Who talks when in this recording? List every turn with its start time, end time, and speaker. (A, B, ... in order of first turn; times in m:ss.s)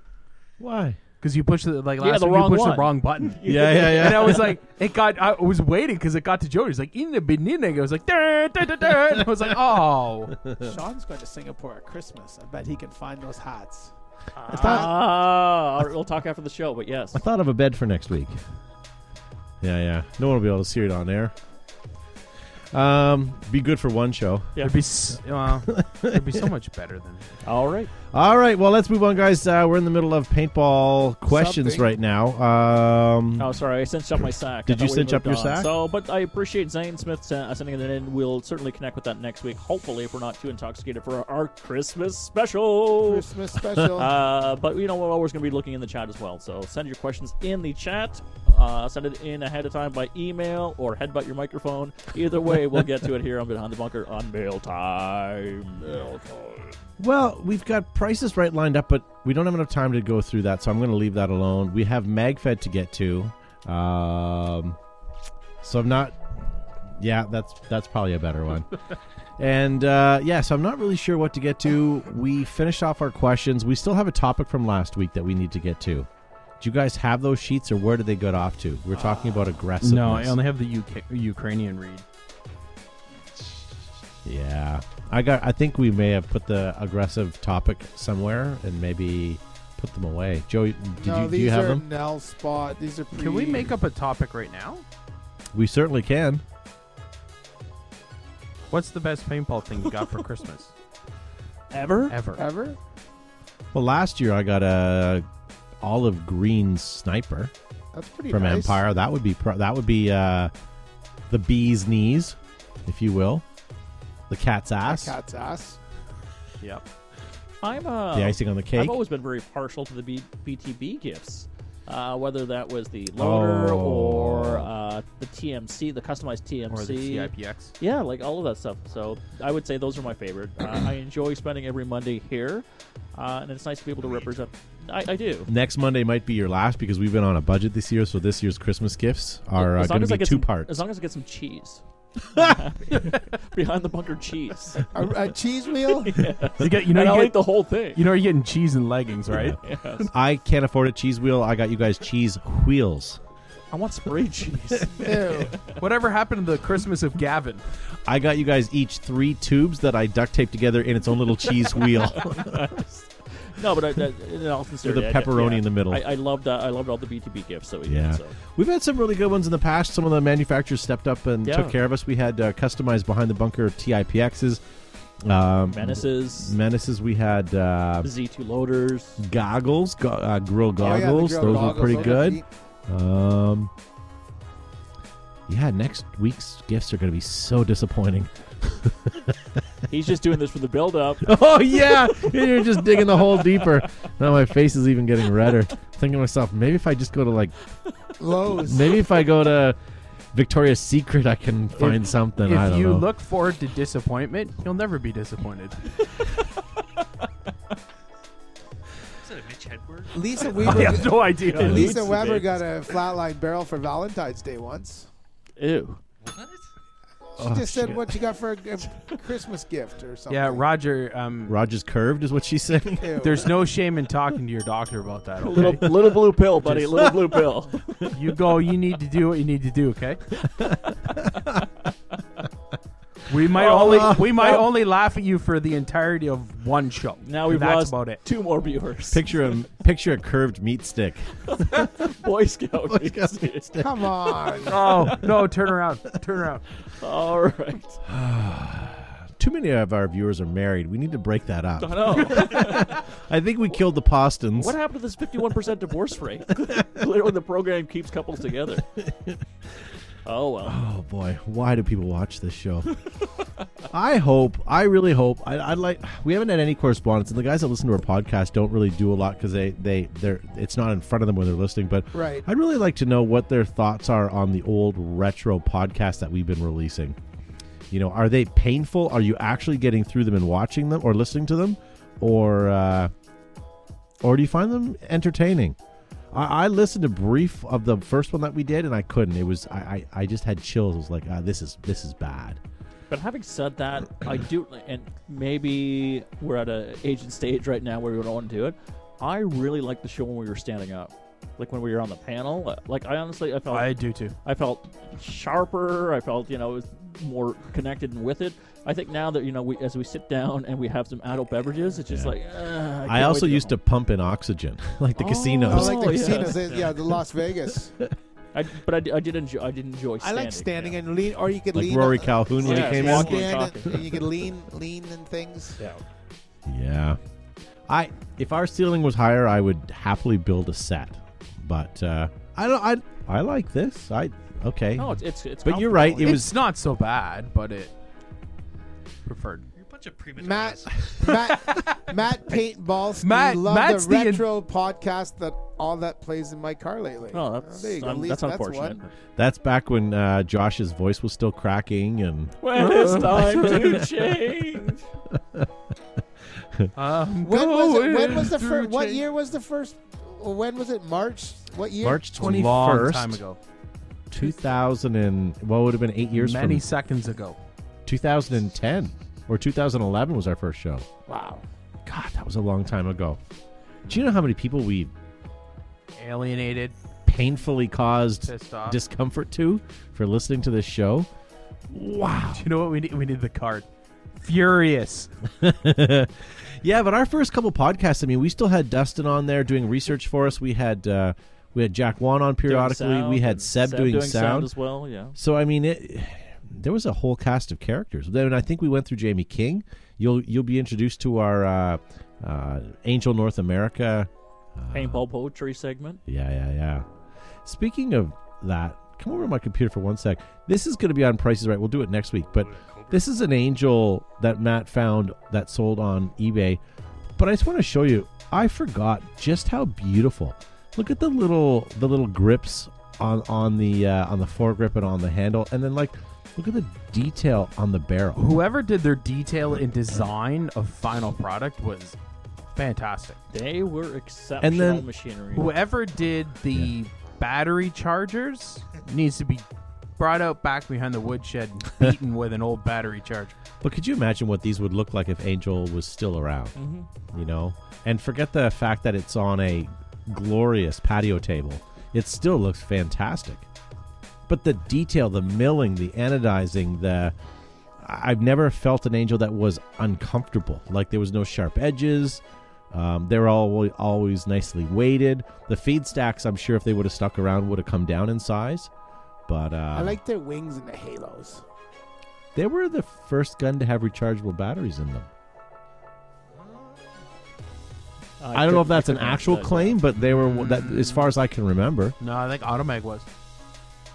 0:00.6-0:01.0 A
0:01.2-0:10.4 B
0:02.0-0:04.4 C
0:03.4-0:04.6 A
0:10.5-0:10.7 A
0:10.6-0:13.9 D
0:14.4-0:17.2 C
0:14.4-0:15.0 D
0:14.5-0:14.9 A
0:17.1-0:18.4 A
0:19.6-0:21.3 A
0:22.7-0:24.5 A
0:24.6-0:27.4 B
0:25.7-0:26.4 A
0:27.4-0:27.9 C
0:28.1-0:33.6 A
0:31.3-0:31.9 D
0:33.4-0:43.2 C
0:34.7-0:35.7 A
0:43.0-0:44.1 D
0:43.9-0:56.7 C
0:57.0-1:04.8 A
1:05.6-1:06.2 A
1:07.0-1:08.8 A
1:09.4-1:16.1 A
1:16.6-1:20.4 A
1:19.8-1:22.0 B
1:24.2-1:31.8 A
1:31.0-1:33.7 D
1:33.1-1:34.8 B
1:35.5-1:36.4 A
1:38.7-1:40.7 B
1:41.7-1:42.2 C
1:42.1-1:42.4 B
1:42.4-1:42.8 D
1:43.7-1:45.2 A
1:45.8-1:47.5 A
1:47.9-1:48.8 D
1:48.3-1:50.5 A
1:51.3-1:53.4 A
1:54.3-1:55.2 A
1:54.8-1:55.8 D
1:57.6-2:15.5 C
1:58.1-1:59.0 A
2:03.2-2:04.7 A
2:06.7-2:07.7 B
2:14.0-2:14.3 E
2:15.5-2:20.8 A
2:19.6-2:24.8 C
2:24.9-2:26.3 D
2:26.0-2:28.0 C
2:26.6-2:29.6 B
2:29.3-2:29.6 A
2:29.6-2:30.1 C
2:30.1-2:33.2 A
2:33.7-2:35.6 C
2:35.0-2:35.6 D
2:35.7-2:37.6 B
2:38.1-2:42.8 A
2:42.2-2:48.4 C
2:44.8-2:46.0 A
2:47.9-2:54.6 A
2:51.4-2:51.8 C
2:55.2-2:58.1 A
2:55.7-2:56.6 C
2:58.0-2:59.2 C
2:59.2-3:03.7 A
3:00.8-3:02.4 D
3:01.5-3:02.2 C
3:05.5-3:09.4 A
3:09.9-3:13.7 C
3:11.2-3:17.5 A
3:18.2-3:19.0 D
3:18.5-3:19.8 A
3:20.3-3:23.1 A
3:21.8-3:25.9 B
3:29.2-3:30.9 E
3:30.1-3:35.1 D
3:30.6-3:32.3 B
3:31.6-3:32.5 C
3:35.6-3:36.0 C
3:36.2-3:36.7 E
3:37.4-3:40.7 D
3:37.4-3:38.1 A
3:40.3-3:41.6 B
3:41.5-3:43.3 A
3:43.0-3:43.5 D
3:43.2-3:45.9 B
3:45.4-3:48.1 C
3:46.6-3:47.1 B
3:48.1-3:50.3 B
3:50.5-3:51.6 A
3:53.3-3:58.2 B
3:53.6-3:54.6 C
3:53.6-3:54.6 A
3:57.2-3:59.2 C
3:59.1-4:02.1 A
4:01.5-4:03.8 C
4:02.9-4:04.1 A
4:03.8-4:04.9 D
4:04.7-4:06.6 B
4:04.7-4:05.2 C
4:07.0-4:08.0 C
4:08.1-4:14.8 A
4:11.8-4:12.9 C
4:14.6-4:18.8 C
4:18.9-4:19.4 A
4:20.2-4:20.8 C
4:20.6-4:22.9 A
4:23.9-4:37.2 A
4:32.1-4:32.5 D
4:37.9-4:43.1 A
4:44.2-4:45.8 A
4:46.3-4:52.6 A
4:53.1-5:03.9 C
5:03.7-5:04.4 B
5:04.4-5:13.8 C
5:12.1-5:12.4 A
5:13.0-5:16.5 A
5:15.2-5:16.9 C
5:15.7-5:18.0 D
5:18.5-5:21.0 C
5:20.2-5:25.8 D
5:21.7-5:23.6 A
5:22.6-5:24.0 C
5:26.7-5:27.2 A
5:27.9-5:36.6 A
5:35.0-5:36.4 C
5:36.2-5:37.9 B
5:39.3-5:39.7 B
5:39.8-5:41.1 E
5:40.4-5:49.0 D
5:41.2-5:42.2 B
5:43.2-5:44.5 B
5:47.3-5:49.0 C
5:49.4-5:54.1 A
5:52.6-5:55.0 C
5:52.8-5:53.5 B
5:55.3-5:55.7 A
5:56.6-5:56.9 A
5:57.0-5:59.2 B
5:57.4-6:02.3 D
6:02.0-6:03.4 A
6:02.4-6:03.6 B
6:04.3-6:06.9 A
6:06.3-6:07.6 B
6:08.1-6:11.1 A
6:11.3-6:11.6 D
6:12.0-6:13.4 A
6:14.1-6:15.1 A
6:16.2-6:17.0 B
6:17.3-6:21.3 A
6:18.5-6:19.0 B
6:21.9-6:22.7 A
6:22.5-6:23.9 B
6:24.4-6:25.3 B
6:25.6-6:34.7 A
6:32.6-6:35.4 C
6:35.4-6:45.2 A
6:44.9-6:46.2 C
6:46.3-6:47.1 A
6:47.6-6:56.8 A
6:52.5-6:53.3 E
6:57.4-7:08.5 A
7:08.4-7:12.2 B
7:12.8-7:13.4 B
7:13.5-7:15.7 C
7:14.6-7:15.1 A
7:15.5-7:19.6 B
7:20.2-7:23.6 B
7:23.8-7:26.8 A
7:26.8-7:27.1 C
7:27.3-7:33.6 A
7:34.5-7:37.4 A
7:38.0-7:48.9 A
7:49.5-7:50.2 A
7:49.9-7:51.6 D
7:52.6-7:55.3 A
7:56.6-7:57.0 E
7:58.4-8:00.0 C
7:58.5-8:02.2 A
8:00.2-8:01.3 B
8:02.2-8:03.3 B